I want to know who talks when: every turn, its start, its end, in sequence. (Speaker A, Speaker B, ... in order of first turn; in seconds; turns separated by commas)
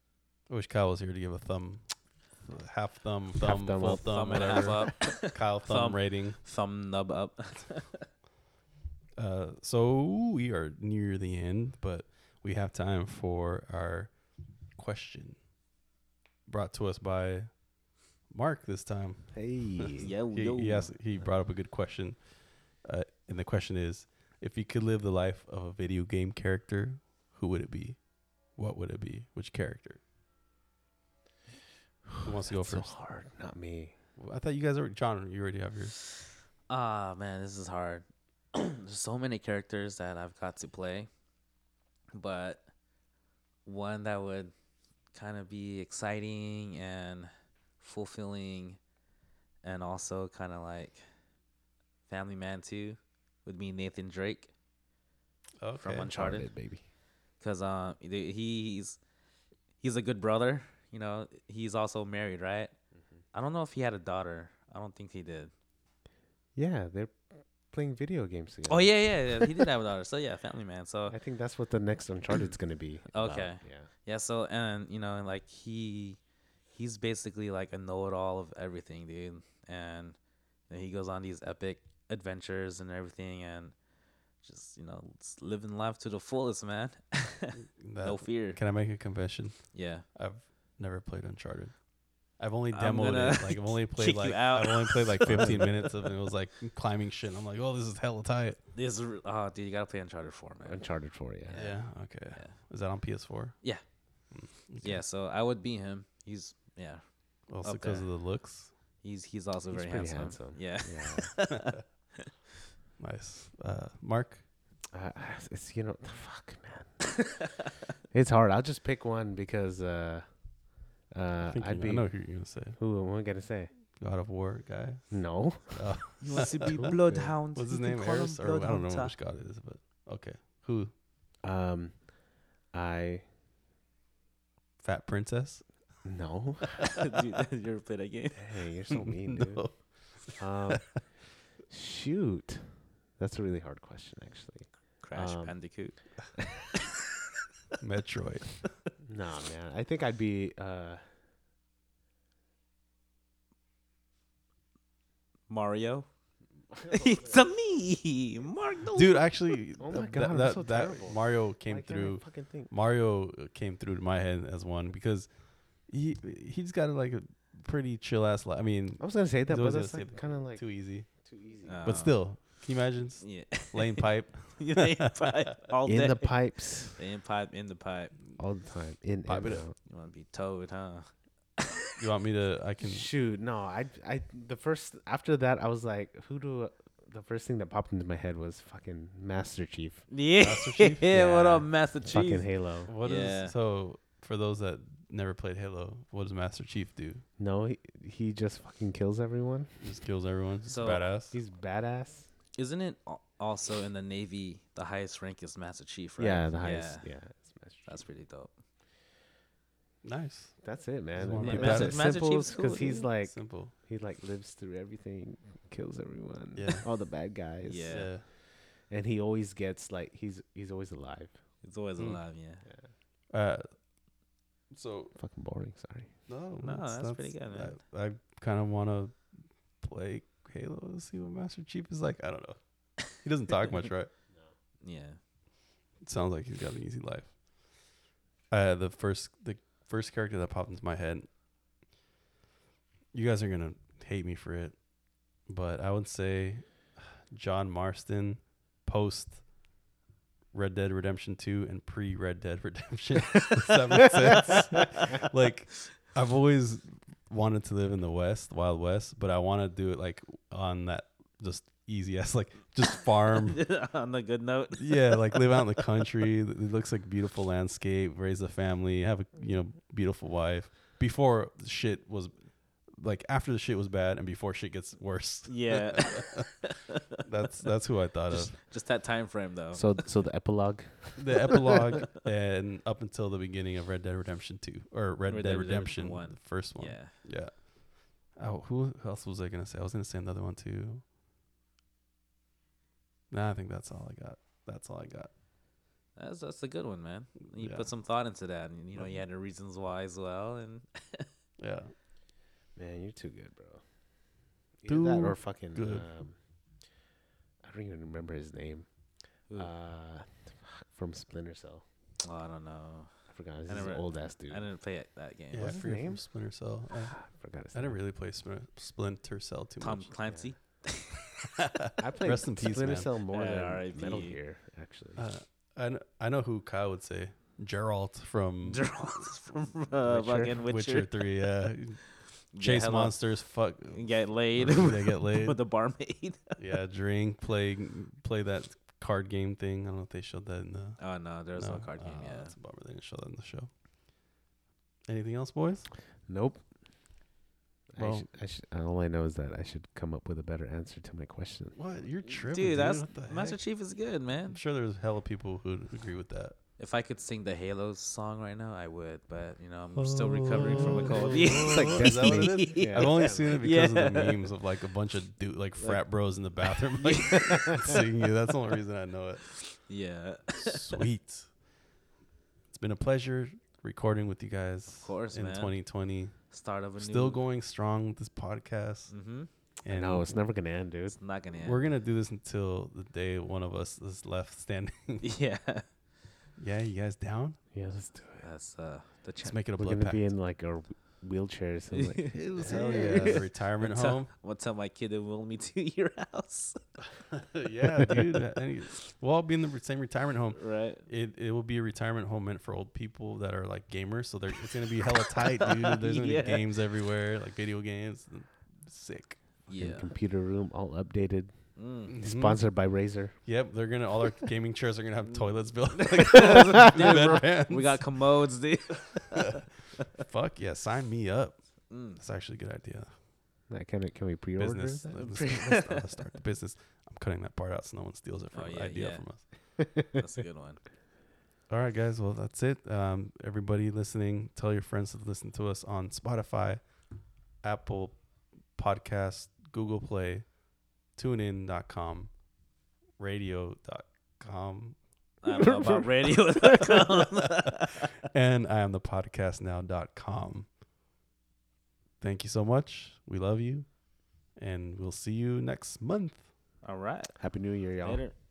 Speaker A: 0.5-6.4, Speaker B: 3.4-4.9, Speaker C: 4.0-8.1, Speaker A: 9.1-15.5, Speaker A: 16.5-17.7, Speaker A: 18.2-30.0, Speaker B: 19.3-20.1, Speaker C: 20.0-20.9, Speaker A: 32.2-33.0, Speaker B: 32.5-34.0, Speaker A: 34.2-36.0, Speaker C: 36.7-41.1, Speaker C: 42.1-42.7, Speaker C: 43.6-44.5, Speaker C: 45.1-48.8, Speaker C: 49.6-51.0, Speaker C: 52.1-54.5, Speaker A: 55.6-56.1, Speaker C: 55.8-56.7, Speaker B: 56.1-56.9, Speaker C: 57.4-59.0, Speaker C: 59.8-62.7, Speaker B: 62.9-63.2, Speaker C: 63.3-65.5, Speaker B: 66.5-69.5, Speaker C: 68.7-71.2, Speaker B: 71.1-73.9, Speaker C: 73.1-76.2, Speaker C: 76.7-83.8, Speaker C: 84.4-89.0, Speaker A: 87.8-98.6, Speaker C: 89.7-90.0, Speaker C: 92.7-96.1, Speaker B: 95.3-95.8, Speaker C: 98.7-102.6, Speaker B: 100.6-101.8, Speaker A: 101.5-105.0, Speaker C: 103.6-108.4, Speaker A: 107.5-108.8, Speaker C: 109.0-112.0, Speaker B: 109.7-111.4, Speaker A: 113.0-114.5, Speaker B: 114.9-117.4, Speaker B: 118.1-123.7, Speaker A: 121.4-122.8, Speaker A: 123.9-130.9, Speaker B: 125.1-127.3, Speaker C: 126.2-129.2, Speaker B: 131.4-133.3, Speaker A: 134.8-136.2, Speaker B: 136.0-137.0, Speaker C: 137.0-138.6, Speaker B: 138.3-146.3, Speaker A: 139.0-140.8, Speaker C: 145.0-146.6, Speaker A: 147.8-148.8, Speaker B: 149.0-151.2, Speaker C: 155.5-156.3, Speaker B: 156.8-157.4, Speaker C: 156.9-159.5, Speaker A: 158.9-171.2, Speaker B: 159.8-162.7, Speaker B: 169.0-172.1, Speaker C: 171.6-172.5, Speaker A: 171.8-175.3, Speaker C: 173.2-178.1, Speaker B: 175.8-177.0, Speaker B: 178.3-179.8, Speaker A: 179.2-179.7, Speaker C: 179.8-181.7, Speaker A: 182.0-183.1, Speaker B: 182.8-190.1, Speaker C: 190.1-193.5, Speaker A: 190.3-191.1, Speaker B: 191.1-192.9, Speaker A: 192.8-197.2, Speaker B: 197.4-200.0, Speaker A: 199.8-201.4, Speaker C: 200.6-201.0, Speaker B: 201.2-202.4, Speaker C: 202.5-208.6, Speaker B: 206.2-208.6, Speaker A: 210.0-212.2, Speaker B: 210.6-221.6, Speaker C: 211.4-213.1, Speaker A: 213.2-213.7, Speaker A: 216.5-216.9, Speaker C: 217.6-218.1, Speaker A: 217.9-218.2, Speaker C: 221.6-222.6, Speaker A: 222.0-222.3, Speaker B: 222.6-222.9, Speaker A: 223.3-224.0, Speaker A: 224.7-225.2, Speaker B: 225.1-226.2, Speaker A: 226.3-234.1, Speaker C: 226.6-227.8, Speaker B: 234.3-234.6, Speaker C: 234.8-235.2, Speaker A: 236.0-237.4, Speaker A: 238.5-241.3, Speaker A: 243.1-249.7, Speaker A: 250.5-263.8, Speaker C: 263.5-265.8, Speaker A: 264.7-276.7, Speaker C: 275.4-276.6, Speaker A: 277.2-278.6, Speaker C: 278.3-280.1, Speaker B: 279.7-281.8, Speaker A: 281.1-291.1, Speaker C: 285.3-287.1, Speaker A: 293.3-295.3, Speaker C: 296.1-301.3, Speaker A: 297.6-298.2, Speaker A: 298.9-299.2, Speaker A: 301.6-301.9, Speaker B: 302.7-306.9, Speaker A: 304.9-306.1, Speaker B: 307.6-311.9, Speaker C: 312.2-315.9, Speaker B: 313.3-314.7, Speaker A: 315.5-320.3, Speaker B: 315.6-318.0, Speaker C: 319.8-321.1, Speaker B: 320.2-320.6, Speaker B: 322.0-325.3, Speaker A: 322.1-323.1, Speaker C: 323.3-324.4, Speaker A: 325.1-329.2, Speaker C: 328.6-331.9, Speaker B: 330.1-330.6, Speaker A: 330.6-336.0, Speaker C: 332.5-336.6, Speaker A: 336.6-343.8, Speaker C: 341.0-342.6, Speaker A: 345.1-345.9, Speaker B: 346.2-347.2, Speaker B: 347.9-351.9, Speaker A: 348.0-348.3, Speaker A: 351.7-356.6, Speaker C: 352.4-354.6, Speaker C: 356.8-364.5, Speaker A: 359.9-369.9, Speaker B: 360.6-363.7, Speaker C: 365.8-367.9, Speaker C: 369.8-370.8, Speaker A: 370.6-371.6, Speaker A: 372.7-380.5, Speaker C: 375.0-377.4, Speaker C: 379.1-379.5, Speaker B: 379.9-381.3, Speaker C: 381.1-381.8, Speaker A: 381.6-385.3, Speaker C: 385.2-386.0, Speaker A: 386.6-387.6, Speaker B: 387.7-389.1, Speaker C: 388.4-389.6, Speaker A: 389.4-390.3, Speaker B: 389.7-393.5, Speaker C: 391.9-397.1, Speaker A: 392.5-394.3, Speaker A: 397.5-409.7, Speaker C: 400.6-401.0, Speaker C: 405.9-406.7, Speaker C: 409.7-410.1, Speaker B: 409.7-413.4, Speaker C: 411.8-412.1, Speaker A: 412.1-418.3, Speaker C: 416.2-419.6, Speaker B: 416.5-417.3, Speaker A: 420.1-423.2, Speaker C: 421.9-422.2, Speaker B: 423.7-426.0, Speaker A: 424.6-429.7, Speaker C: 425.1-426.1, Speaker C: 428.5-430.8, Speaker A: 431.7-442.5, Speaker A: 443.1-445.4, Speaker C: 445.4-447.9, Speaker B: 445.5-446.6, Speaker A: 448.3-450.7, Speaker A: 452.2-456.8, Speaker C: 456.8-458.4, Speaker B: 457.4-458.3